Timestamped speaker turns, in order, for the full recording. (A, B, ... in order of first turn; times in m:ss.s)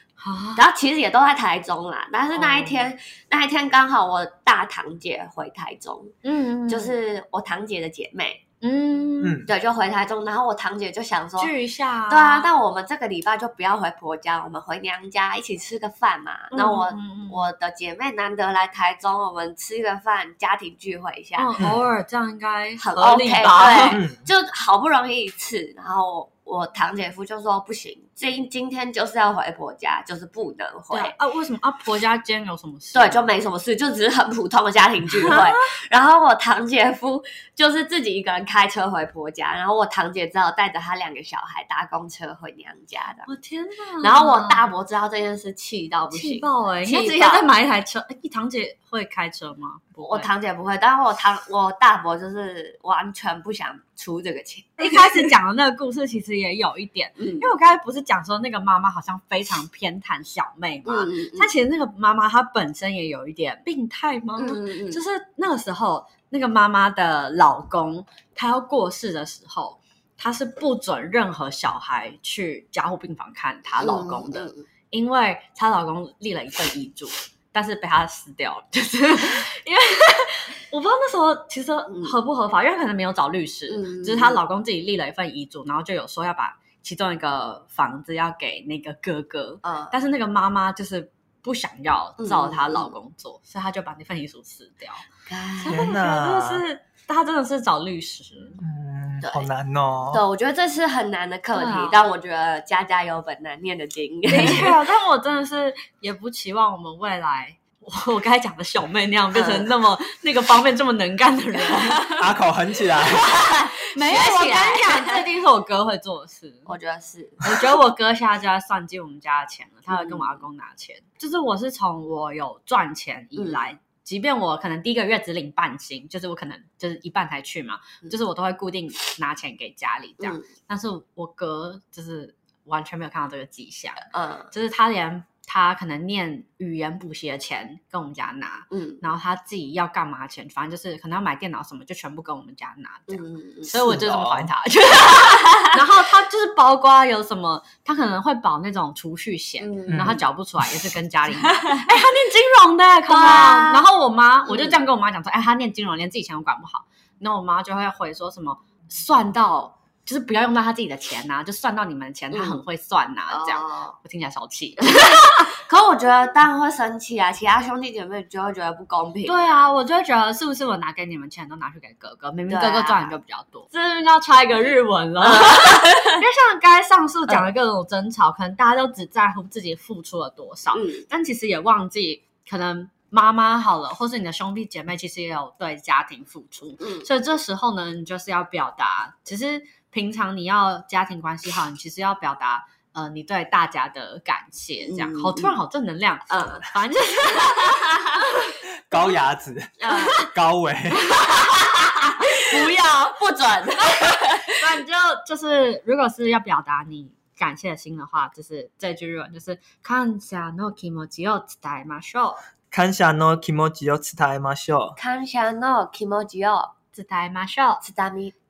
0:00.2-0:00.6 A
0:00.6-0:06.2 B
0:02.3-0:02.8 A
0:06.2-0:07.0 A
0:06.7-0:08.4 B
0:08.6-0:09.4 A
0:09.2-0:09.5 C
0:09.5-0:11.5 B
0:11.4-0:12.5 A
0:12.1-0:21.6 B
0:16.5-0:17.4 A
0:21.4-0:24.0 A
0:22.8-0:31.2 B
0:23.9-0:24.2 C
0:30.9-0:33.3 A
0:32.9-0:43.3 B
0:35.2-0:35.6 A
0:43.3-0:44.6 A
0:44.0-0:47.5 B
0:46.1-0:50.3 A
0:50.0-0:55.4 B
0:54.8-1:35.0 A
0:57.2-0:57.5 B
1:00.9-1:01.5 B
1:04.4-1:05.0 B
1:13.8-1:14.6 B
1:21.9-1:22.1 B
1:23.7-1:24.4 B
1:29.6-1:29.9 B
1:32.2-1:33.0 B
1:35.3-1:35.9 B
1:35.6-1:38.6 A
1:35.7-1:36.6 C
1:38.6-1:40.2 C
1:39.2-1:39.5 B
1:40.1-1:44.7 B
1:41.5-1:42.0 A
1:44.3-1:52.2 A
1:44.3-1:44.7 C
1:49.3-1:49.7 B
1:51.8-1:52.2 B
1:52.2-1:53.3 C
1:53.2-1:56.7 A
1:53.2-1:55.2 B
1:56.7-1:57.8 B
1:57.4-2:45.5 A
1:59.9-2:00.4 B
2:03.4-2:03.6 B
2:10.2-2:10.5 B
2:14.1-2:14.5 B
2:18.7-2:19.0 B
2:23.1-2:23.8 B
2:23.7-2:24.5 C
2:25.2-2:25.7 B
2:29.6-2:30.2 B
2:29.9-2:30.2 C
2:31.4-2:31.9 B
2:33.1-2:33.8 B
2:34.5-2:34.8 B
2:42.3-2:42.6 B
2:43.3-2:44.0 B
2:44.9-2:49.7 B
2:49.3-3:19.1 A
2:52.5-2:53.1 B
2:55.2-2:56.2 B
3:00.7-3:01.1 B
3:06.8-3:07.1 B
3:14.8-3:15.5 B
3:16.3-3:16.7 B
3:17.3-3:18.0 B
3:18.9-3:21.2 C
3:19.8-3:20.2 B
3:19.9-3:20.3 A
3:21.0-3:23.2 A
3:22.4-3:24.7 B
3:23.8-3:32.4 A
3:32.7-3:35.0 C
3:35.0-3:36.7 B
3:36.9-3:37.8 A
3:37.8-3:38.3 B